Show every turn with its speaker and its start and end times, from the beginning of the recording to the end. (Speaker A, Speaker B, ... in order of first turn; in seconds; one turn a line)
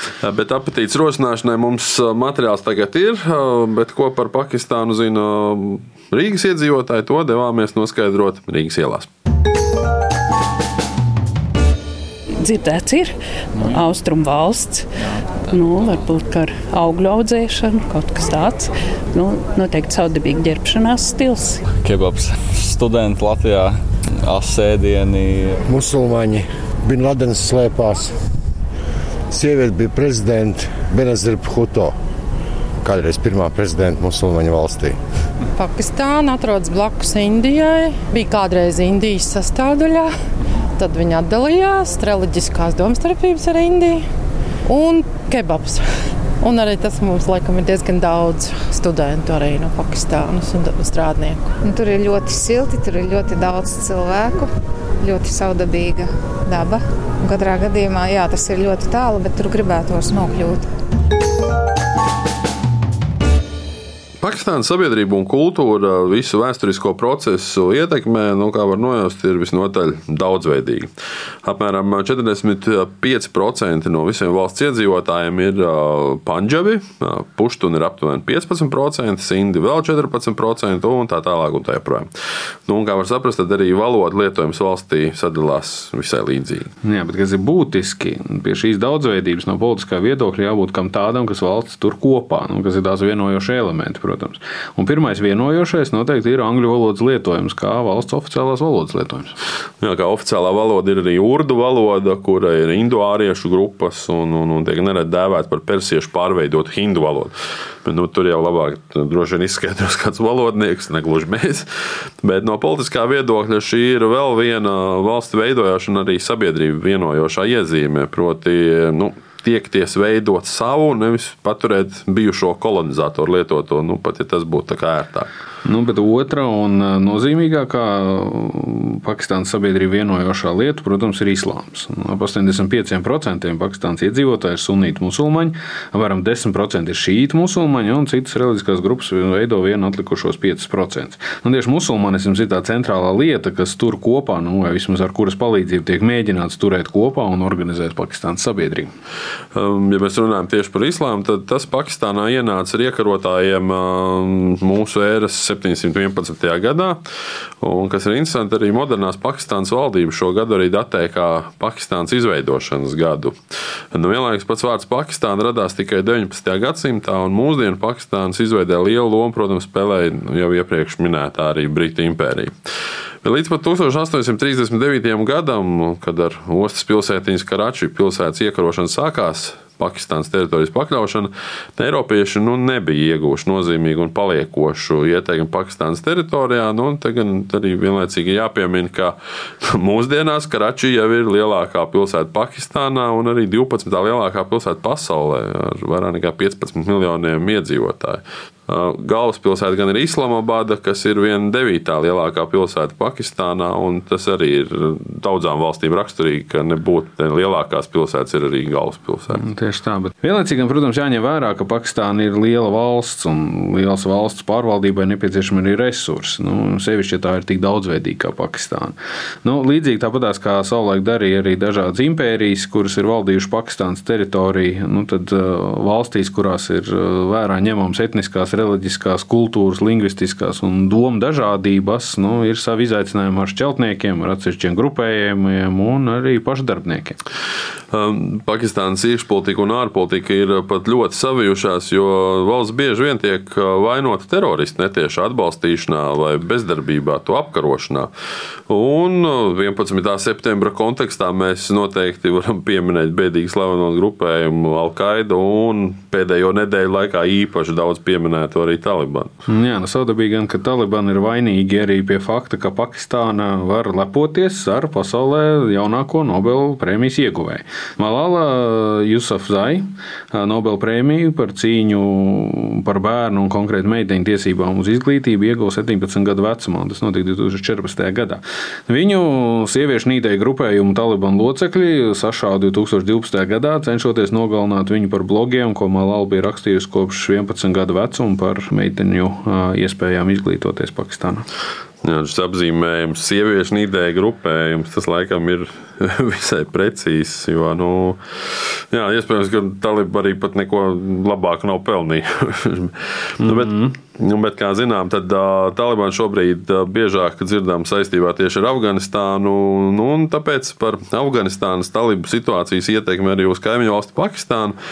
Speaker A: 0.2-9.1
Speaker B: 12.4-14.9
Speaker B: 15.5-21.6
Speaker C: 21.7-25.6
Speaker D: 25.6-28.1
Speaker D: 29.3-31.9
Speaker D: 32.8-35.0
Speaker E: 35.5-40.1
Speaker E: 40.8-44.1
Speaker E: 44.6-45.9
Speaker E: 46.4-51.6
Speaker F: 51.6-60.7
Speaker A: 64.2-70.9
Speaker A: 71.4-82.1
Speaker A: 82.7-86.7
Speaker G: 86.8-99.4
Speaker A: 99.8-107.3
Speaker A: 107.8-111.7
Speaker A: 112.2-125.3
Speaker G: 125.6-148.9
Speaker A: 149.5-157.0
Speaker A: 157.6-163.3
Speaker A: 163.9-172.5
Speaker A: 173.2-209.4
Speaker G: 209.3-237.2
Speaker A: 237.9-248.1
Speaker A: 248.7-259.3
Speaker G: 259.5-291.4
Speaker A: 292.0-298.2
Speaker A: 298.9-314.8
Speaker G: 303.4-304.0